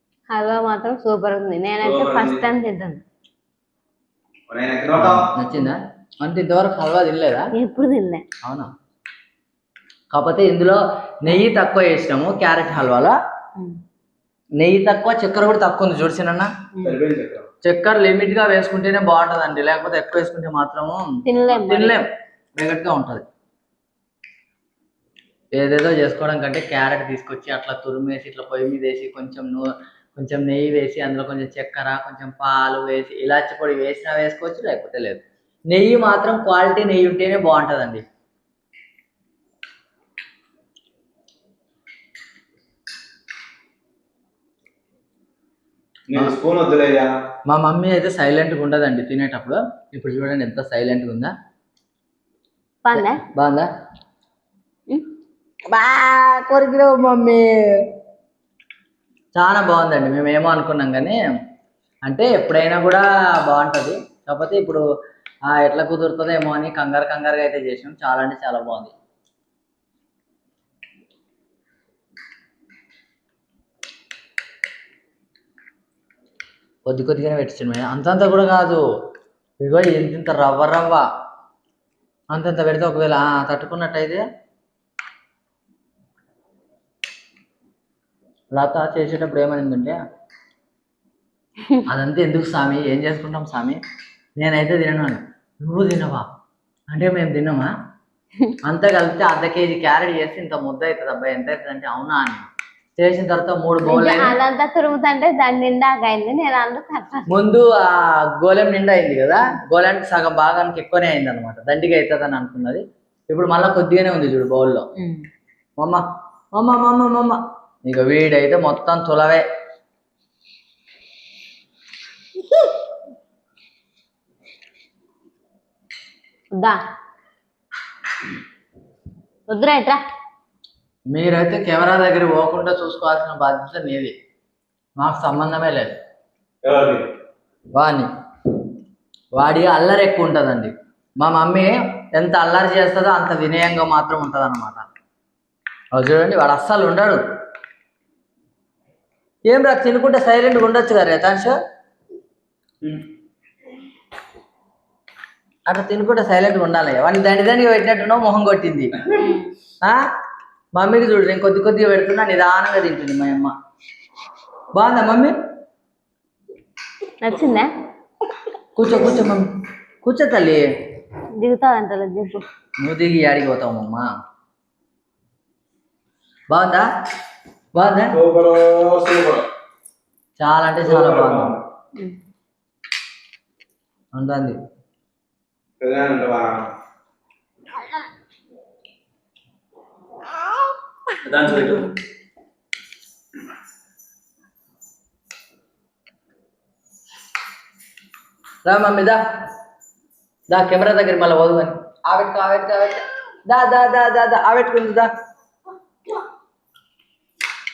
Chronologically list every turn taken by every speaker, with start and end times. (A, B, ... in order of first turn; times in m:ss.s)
0:00.3-0:03.0 A
0:01.8-0:02.4 B
0:04.5-0:05.3 B
0:04.9-0:07.5 C
0:07.6-0:08.2 A
0:08.4-0:08.7 C
0:10.1-0:13.1 C
0:14.6-0:16.5 C
0:16.8-0:17.5 B
0:17.6-0:23.2 C
0:21.3-0:22.0 A
0:25.5-0:29.6 C
0:30.2-0:38.0 C
0:46.1-0:47.1 B
0:47.5-0:51.3 C
0:52.8-0:53.2 A
0:52.9-0:53.7 C
0:55.7-0:57.5 C
0:59.4-1:01.2 C
1:02.1-1:04.8 C
1:05.5-1:08.9 C
1:16.9-1:18.8 C
1:19.6-1:21.1 C
1:22.3-1:24.2 C
1:28.5-1:30.0 C
1:31.9-1:33.8 C
1:34.4-1:36.3 C
1:36.9-1:37.7 C
1:38.7-1:44.4 C
1:43.8-1:47.3 A
1:47.3-1:54.9 C
1:56.6-1:59.4 C
2:06.5-2:06.8 A
2:09.5-2:10.0 A
2:11.1-2:14.1 C
2:15.0-2:16.0 C
2:16.6-2:17.1 B
2:17.8-2:18.1 C
2:19.4-2:24.8 C
2:25.9-2:27.2 C
2:29.5-2:31.5 C
2:35.7-2:38.9 C
2:39.1-2:39.5 A
2:40.8-2:43.5 C
2:44.8-2:45.3 C
2:47.2-2:47.7 A
2:48.8-2:49.5 C
2:50.0-2:50.6 C
2:51.4-2:52.4 A
2:52.8-2:54.1 C
2:56.5-2:56.8 C
2:57.8-2:58.2 C
2:58.1-2:59.4 B
3:00.4-3:01.5 C
3:00.8-3:01.6 B
3:04.2-3:04.6 C
3:05.8-3:06.7 B
3:11.2-3:11.9 B
3:18.6-3:19.2 C
3:20.5-3:25.1 C